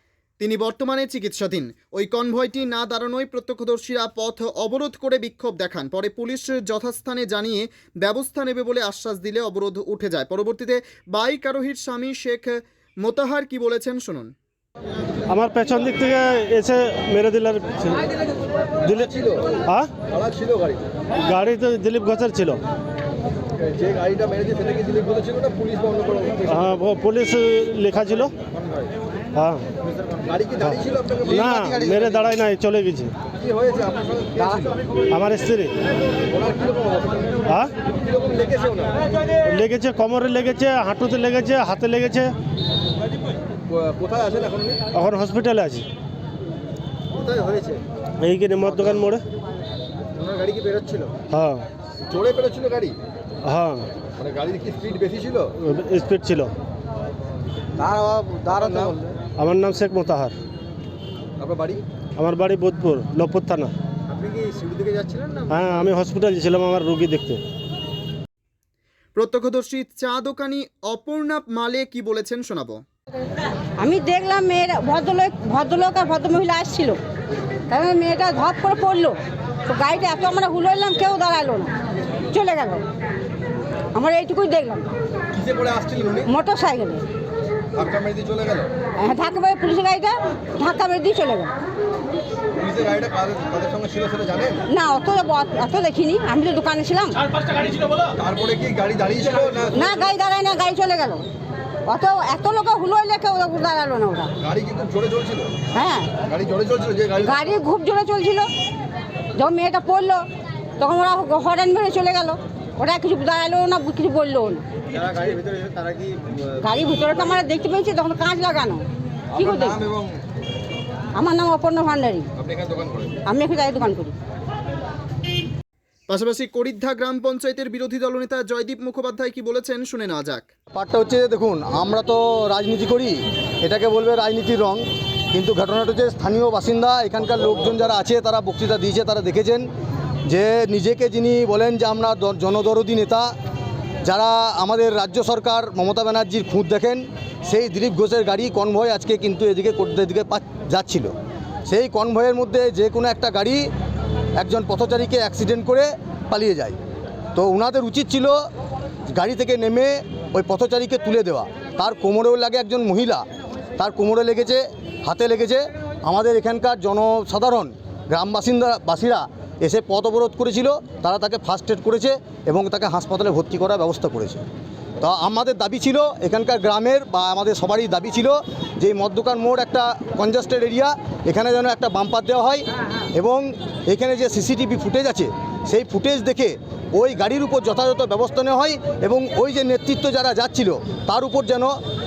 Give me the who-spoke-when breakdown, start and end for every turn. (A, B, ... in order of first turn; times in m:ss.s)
0:00.4-0:14.3 A
0:15.3-0:18.0 B
0:18.8-0:19.1 B
0:19.7-0:19.9 B
0:20.1-0:20.8 C
0:21.2-0:22.6 B
0:23.7-0:26.5 C
0:26.5-0:28.3 B
0:29.4-0:29.7 B
0:30.1-0:32.0 C
0:30.6-0:33.1 B
0:33.4-0:34.8 C
0:35.1-0:35.7 B
0:36.3-0:37.4 C
0:38.0-0:39.0 C
0:39.4-0:42.3 B
0:43.7-0:44.8 C
0:44.9-0:45.9 B
0:47.2-0:47.8 C
0:48.2-0:49.2 B
0:50.2-0:51.1 C
0:51.3-0:51.7 B
0:52.1-0:53.0 C
0:53.4-0:53.9 B
0:54.2-0:55.5 C
0:55.6-0:56.5 B
0:57.8-0:59.0 C
0:59.4-1:00.3 B
1:01.4-1:01.8 C
1:02.2-1:03.7 B
1:04.1-1:05.4 C
1:05.5-1:07.4 B
1:09.2-1:12.8 A
1:13.8-1:17.0 D
1:17.7-1:21.7 D
1:22.3-1:22.8 D
1:23.9-1:24.9 D
1:25.3-1:26.2 C
1:26.3-1:27.0 D
1:27.8-1:28.7 C
1:29.0-1:31.5 D
1:32.6-1:34.6 C
1:34.7-1:37.2 D
1:38.2-1:40.0 C
1:39.7-1:41.3 D
1:41.9-1:44.3 D
1:44.4-1:45.6 C
1:45.7-1:46.2 D
1:46.2-1:47.4 C
1:47.2-1:48.5 D
1:49.4-1:50.2 D
1:50.8-1:54.6 D
1:55.4-1:56.0 C
1:56.6-1:58.8 D
1:59.3-1:59.8 D
1:59.5-2:00.1 C
2:01.2-2:02.3 D
2:02.4-2:03.1 C
2:03.2-2:04.1 D
2:06.1-2:10.5 A
2:10.7-2:19.7 E
2:20.3-2:23.3 E
2:24.0-2:31.1 E
2:31.7-2:33.7 E
2:34.4-2:36.8 E
2:37.3-2:38.4 E
2:39.1-2:43.2 E
2:43.8-2:54.4 E
2:55.0-3:11.8 E